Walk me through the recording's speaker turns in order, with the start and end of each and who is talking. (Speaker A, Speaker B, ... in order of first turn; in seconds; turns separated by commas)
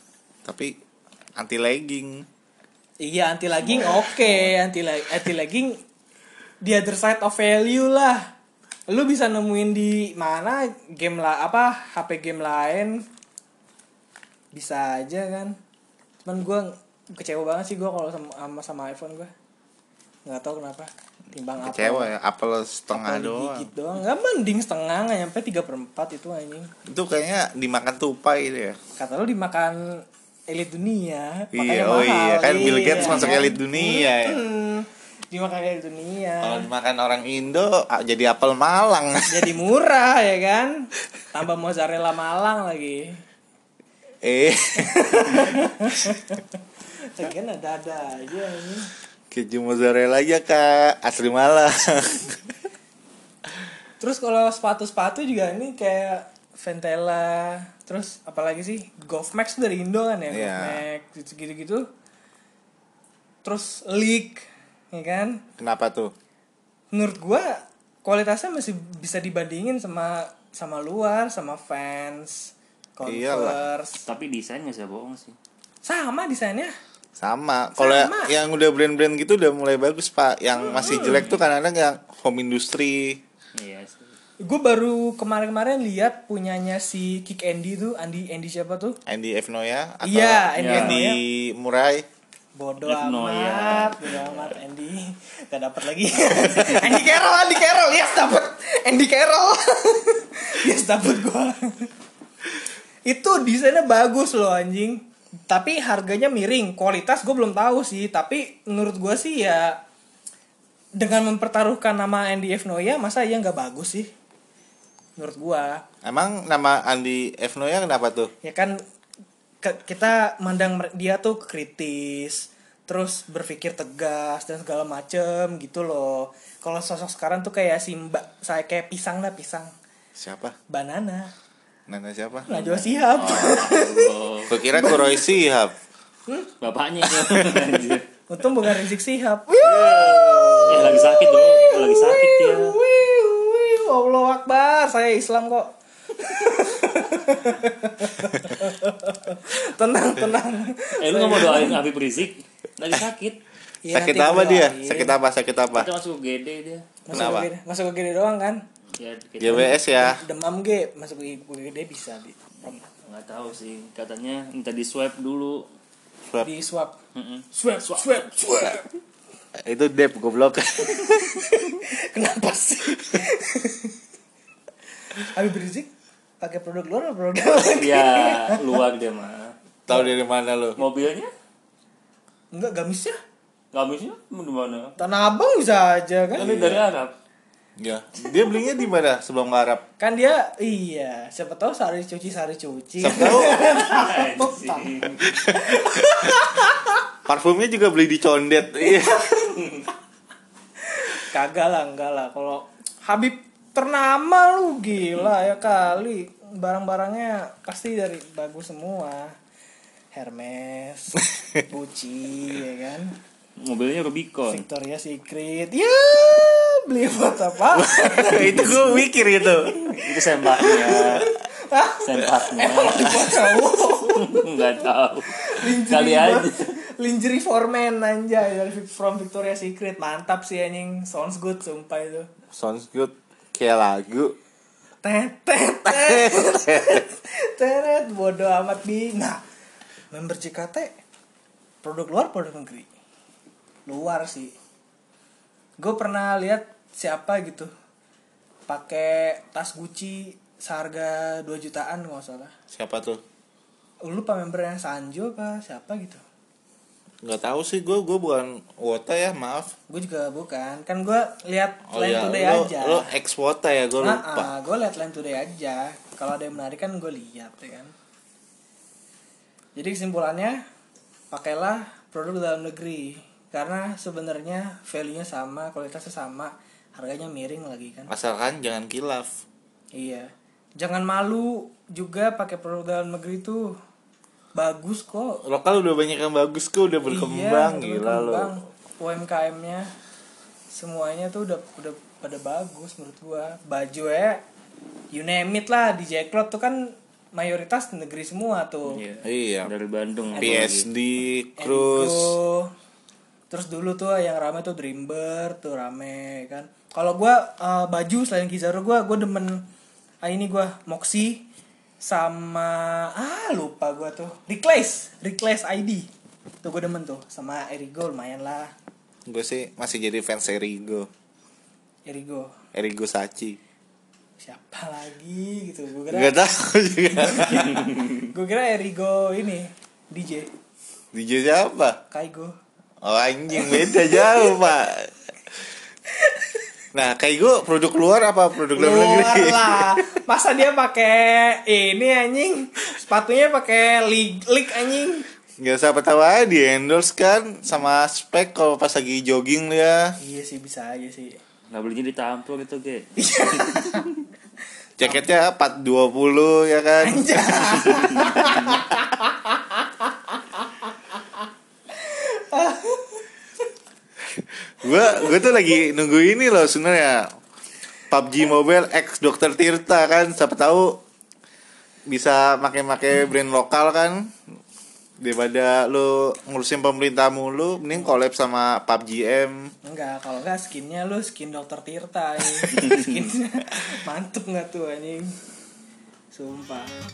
Speaker A: 0.5-0.7, Speaker A: 1.4-2.3, Speaker B: 3.0-5.8, Speaker A: 3.7-4.4, Speaker B: 6.6-8.2, Speaker B: 8.9-13.0, Speaker B: 14.5-15.6, Speaker B: 16.2-19.3, Speaker B: 20.3-22.1, Speaker A: 21.6-23.7, Speaker B: 22.9-26.7, Speaker A: 26.9-28.8, Speaker B: 29.0-36.7, Speaker A: 31.5-34.4, Speaker A: 36.4-39.5, Speaker B: 39.3-43.2, Speaker A: 44.2-46.2, Speaker B: 44.8-46.4, Speaker B: 47.0-48.9, Speaker A: 49.3-52.4, Speaker B: 54.0-61.9, Speaker A: 60.3-60.8, Speaker B: 63.4-65.4, Speaker A: 65.6-66.1, Speaker B: 66.9-74.0, Speaker A: 73.0-73.6, Speaker C: 74.0-75.4, Speaker B: 75.8-76.7, Speaker A: 77.2-83.2, Speaker B: 77.8-78.3, Speaker B: 80.8-81.1, Speaker C: 81.0-81.4, Speaker C: 83.5-84.1, Speaker B: 84.4-89.0, Speaker A: 89.1-92.1, Speaker B: 90.0-91.2, Speaker C: 90.6-91.0, Speaker B: 92.6-101.9, Speaker C: 92.8-94.6, Speaker B: 103.1-109.8, Speaker B: 111.0-114.1, Speaker B: 115.2-115.8, Speaker A: 116.0-118.3, Speaker B: 118.4-118.8, Speaker B: 119.6-129.7, Speaker A: 130.2-130.6, Speaker B: 130.7-131.3, Speaker A: 131.9-132.5, Speaker B: 132.5-134.1, Speaker C: 132.6-134.6, Speaker A: 134.5-135.7, Speaker B: 134.7-135.2, Speaker C: 136.6-138.1, Speaker A: 137.2-137.6, Speaker B: 138.3-151.8, Speaker A: 139.6-141.0, Speaker C: 140.7-142.8, Speaker C: 151.0-153.4, Speaker B: 153.8-155.2, Speaker A: 153.9-155.9, Speaker C: 155.7-157.0, Speaker B: 157.1-158.6, Speaker A: 157.1-157.5, Speaker C: 159.0-159.7, Speaker A: 159.4-160.2, Speaker B: 159.5-162.8, Speaker C: 162.7-165.6, Speaker B: 166.4-167.0, Speaker C: 167.2-167.5, Speaker B: 167.5-168.9, Speaker A: 169.6-171.5, Speaker B: 171.1-174.0, Speaker B: 175.1-175.9, Speaker B: 176.4-178.8, Speaker C: 177.7-179.5, Speaker A: 179.9-180.8, Speaker C: 180.8-181.3, Speaker B: 182.5-183.2, Speaker C: 183.7-185.0, Speaker B: 185.0-186.6, Speaker A: 186.4-186.8, Speaker C: 186.4-187.2, Speaker A: 187.8-189.8, Speaker B: 190.0-196.9, Speaker A: 193.0-193.6, Speaker C: 193.6-195.4, Speaker A: 195.4-195.8, Speaker A: 197.3-199.3, Speaker C: 199.4-199.9, Speaker B: 200.9-209.3, Speaker B: 210.1-213.2, Speaker C: 213.6-214.7, Speaker B: 214.5-218.8, Speaker A: 217.7-219.8, Speaker C: 218.5-218.9, Speaker C: 219.8-221.3, Speaker B: 220.6-232.3, Speaker C: 222.0-223.4, Speaker C: 224.1-226.8, Speaker A: 232.5-234.4, Speaker B: 235.0-239.4, Speaker A: 235.9-237.0, Speaker B: 240.1-241.0, Speaker B: 241.8-242.9, Speaker B: 243.9-244.5, Speaker B: 245.8-247.7, Speaker B: 248.7-252.5, Speaker A: 252.7-253.2, Speaker B: 254.0-256.2, Speaker A: 257.2-259.7, Speaker B: 259.9-263.1, Speaker A: 261.9-264.5, Speaker B: 264.0-267.9, Speaker B: 269.8-270.6, Speaker B: 271.3-278.1, Speaker A: 278.1-279.4, Speaker B: 279.9-283.8, Speaker B: 284.6-285.4, Speaker A: 285.4-288.6, Speaker B: 287.0-289.9, Speaker B: 290.7-294.4, Speaker B: 295.1-299.0, Speaker C: 298.9-300.9, Speaker A: 299.2-299.7, Speaker B: 300.4-300.7, Speaker A: 300.4-302.4, Speaker B: 301.6-302.7, Speaker B: 303.5-309.6, Speaker B: 310.2-311.5, Speaker B: 312.0-316.1, Speaker B: 316.6-318.7, Speaker A: 319.3-321.1, Speaker B: 322.1-322.6, Speaker A: 322.7-323.6, Speaker B: 324.4-326.4, Speaker A: 326.1-328.0, Speaker B: 327.1-330.5, Speaker A: 331.1-332.0, Speaker B: 332.1-332.5, Speaker A: 333.0-335.2, Speaker B: 333.5-334.8, Speaker B: 336.2-336.6, Speaker A: 336.9-340.1, Speaker B: 338.7-345.2, Speaker A: 345.6-350.1, Speaker B: 350.2-351.4, Speaker C: 351.7-354.2, Speaker B: 353.2-354.1, Speaker A: 355.0-358.1, Speaker B: 357.0-361.4, Speaker B: 361.9-363.3, Speaker A: 364.8-367.3, Speaker A: 368.1-371.0, Speaker A: 372.1-374.3, Speaker A: 375.2-379.7, Speaker B: 379.9-385.4, Speaker B: 386.3-386.9